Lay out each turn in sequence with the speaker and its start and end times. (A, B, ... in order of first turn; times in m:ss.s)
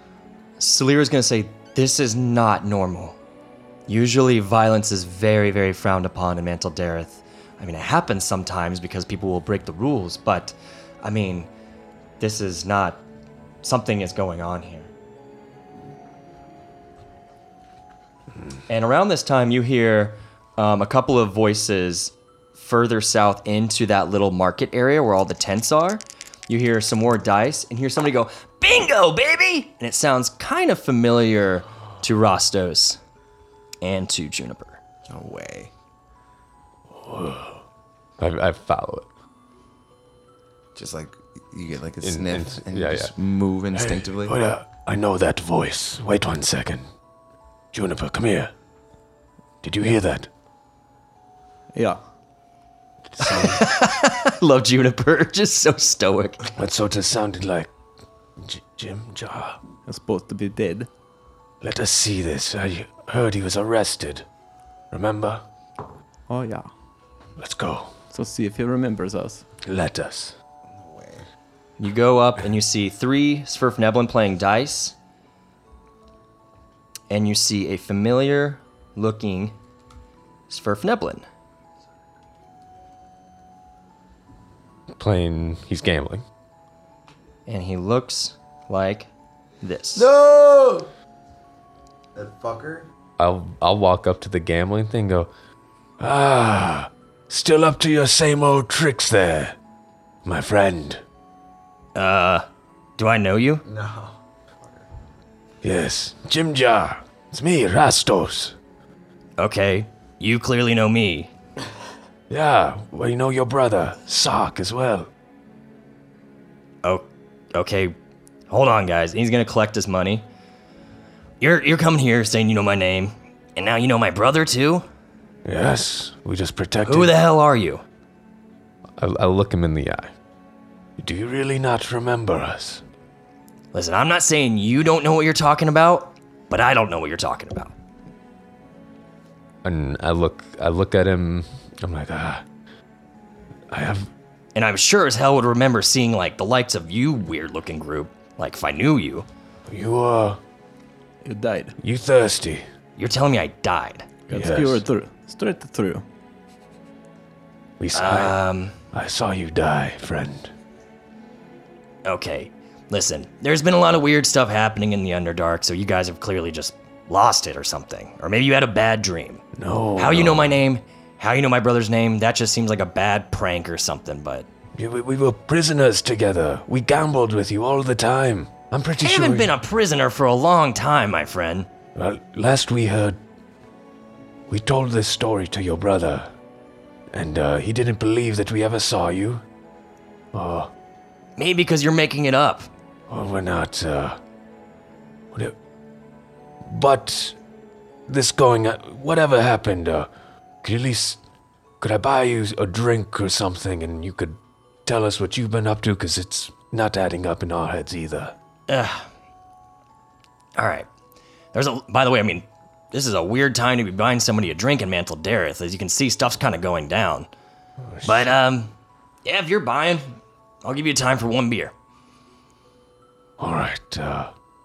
0:00.6-0:03.2 A
0:03.9-0:11.5 A
0:12.2-0:13.0 A
0:13.6-0:14.9 A
0:18.7-0:33.0 A
0:33.8-0:34.8 A
0:35.1-0:35.7 B
0:36.9-0:37.6 C
0:38.2-0:39.1 D
0:40.7-0:44.4 B
0:42.0-0:43.1 D
0:43.7-0:46.9 C
0:47.7-0:48.5 C
0:49.6-0:50.3 C
0:51.7-0:52.0 E
0:53.1-0:53.7 C
0:53.2-0:56.5 A
0:56.6-0:57.7 C
0:58.4-0:59.6 C
0:59.8-1:00.9 E
1:01.6-1:04.2 C
1:04.9-1:05.4 C
1:06.3-1:06.7 E
1:07.4-1:07.9 C
1:08.1-1:09.4 E
1:09.6-1:10.3 C
1:10.7-1:11.2 B
1:11.8-1:14.9 A
1:17.1-1:19.5 A
1:20.5-1:21.2 A
1:24.9-1:26.2 D
1:27.5-1:29.1 A
1:29.6-1:30.1 A
1:29.9-1:30.9 B
1:32.1-1:32.9 B
1:33.2-1:35.3 D
1:36.0-1:39.6 C
1:40.2-1:41.0 C
1:41.9-1:42.4 A
1:43.0-1:43.6 A
1:43.6-1:44.2 B
1:45.6-1:48.6 C
1:49.4-1:51.3 A
1:52.3-1:55.1 C
1:56.8-1:57.9 A
1:58.5-2:00.3 A
2:01.4-2:04.8 A
2:05.4-2:07.1 C
2:06.8-2:07.8 A
2:09.0-2:10.1 D
2:11.0-2:12.8 C
2:13.7-2:17.7 A
2:19.6-2:21.5 D
2:21.8-2:22.4 C
2:23.7-2:24.1 C
2:24.5-2:29.3 A
2:29.7-2:30.4 C
2:31.2-2:31.7 E
2:31.8-2:32.6 C
2:33.0-2:34.1 A
2:34.3-2:36.0 E
2:34.3-2:34.8 C
2:37.8-2:38.4 C
2:37.9-2:38.7 A
2:38.9-2:40.5 C
2:42.0-2:49.4 A
2:49.5-2:50.6 C
2:50.0-2:54.5 A
2:54.7-2:59.5 C
2:59.0-3:01.7 A
3:01.9-3:03.2 C
3:04.5-3:06.3 C
3:07.1-3:09.4 C
3:10.3-3:10.7 C
3:11.4-3:12.7 A
3:13.1-3:14.2 C
3:16.6-3:17.4 C
3:18.1-3:20.1 C
3:20.6-3:21.2 C
3:21.8-3:28.3 C
3:28.7-3:29.1 A
3:30.6-3:30.9 A
3:31.5-3:37.3 A
3:37.8-3:38.3 C
3:38.0-3:38.7 A
3:39.2-3:41.7 A
3:43.4-3:44.3 C